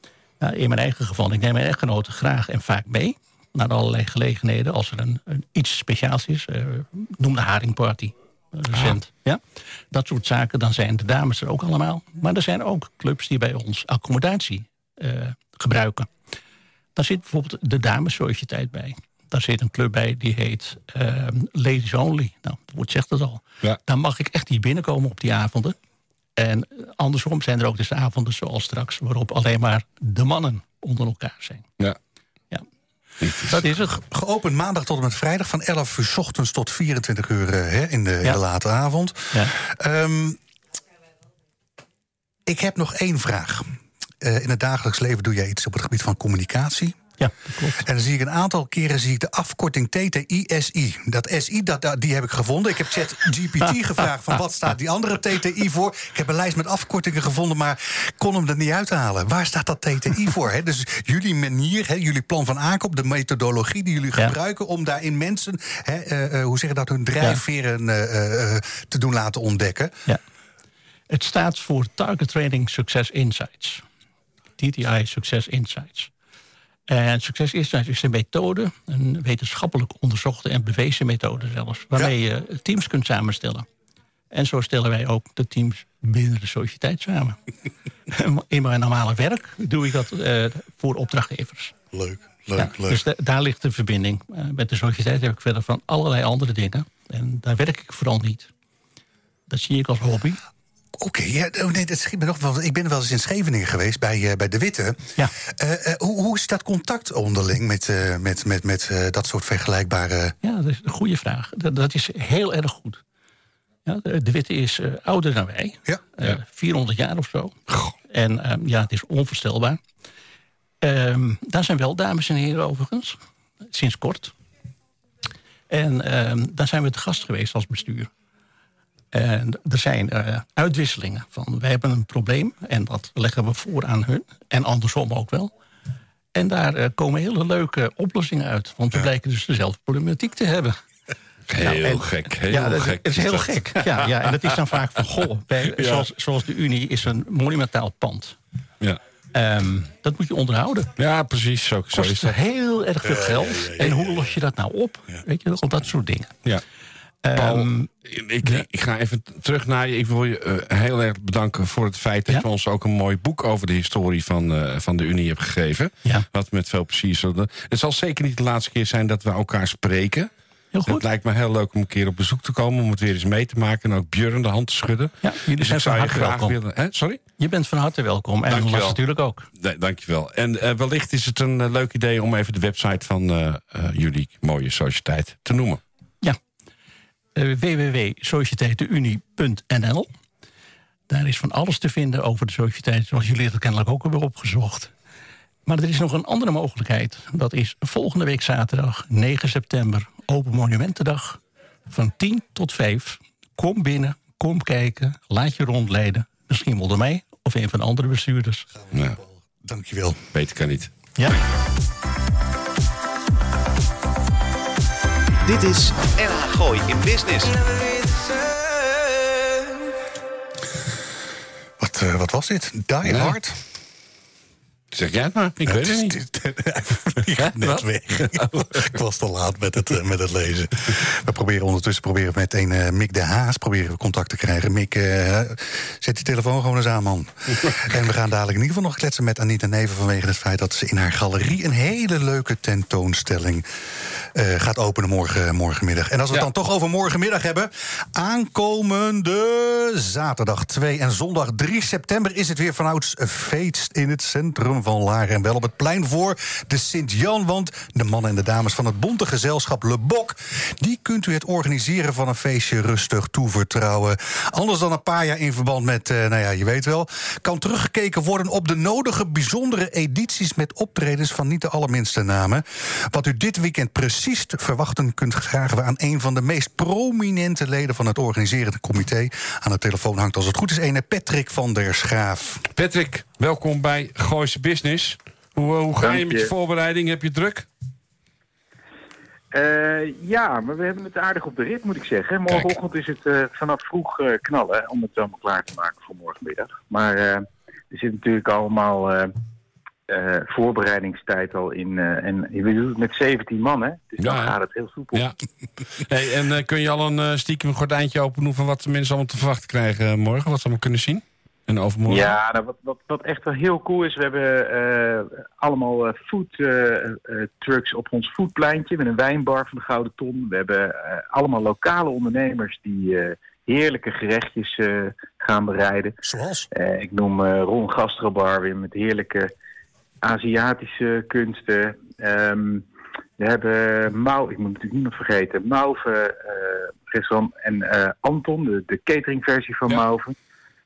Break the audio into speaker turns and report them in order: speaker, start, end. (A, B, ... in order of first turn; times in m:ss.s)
0:00.4-0:16.1 A
0:17.0-0:25.8 A
0:26.4-0:31.7 A
0:33.2-0:33.5 B
0:33.4-0:34.0 A
0:33.7-0:40.4 C
0:42.4-0:47.0 C
0:47.2-0:47.8 A
0:47.8-1:09.9 C
1:11.1-1:13.8 A
1:14.6-1:16.1 A
1:16.9-1:23.6 A
1:24.3-1:27.4 A
1:28.1-1:31.7 A
1:31.9-1:33.0 C
1:32.5-1:38.5 A
1:39.5-1:40.4 A
1:40.9-1:50.3 C
1:50.4-1:53.0 A
1:53.8-1:59.8 A
2:00.8-2:03.2 A
2:03.7-2:04.3 A
2:05.7-2:08.1 A
2:09.1-2:15.5 A
2:16.3-2:20.8 A
2:21.5-2:24.0 B
2:21.6-2:28.4 A
2:25.8-2:26.1 B
2:29.3-2:30.9 A
2:31.0-2:32.4 B
2:31.9-2:36.3 A
2:33.0-2:34.2 C
2:37.2-2:37.9 A
2:37.4-2:50.3 B
2:50.7-2:51.0 A
2:50.9-2:57.2 B
2:55.2-2:56.6 A
2:57.4-2:59.5 A
2:58.5-2:59.0 B
2:59.6-3:05.8 B
3:07.4-3:10.1 A
3:11.1-3:14.9 A
3:15.6-3:28.6 A
3:28.9-3:30.2 C
3:28.9-3:29.2 B
3:30.3-3:30.9 B
3:35.4-3:37.7 D
3:41.8-3:43.6 C
3:43.0-3:43.4 B
3:44.9-3:46.1 B
3:45.6-4:03.6 C
3:47.4-3:48.9 B
4:04.3-4:42.6 C
4:42.8-4:47.7 B
4:46.0-4:46.5 E
4:49.5-4:59.3 E
5:00.1-5:05.2 E
5:04.2-5:04.6 B
5:06.0-5:12.4 B
5:12.1-5:26.2 E
5:26.2-5:26.7 C
5:26.7-5:29.5 E
5:30.2-5:32.8 E
5:33.4-5:40.3 E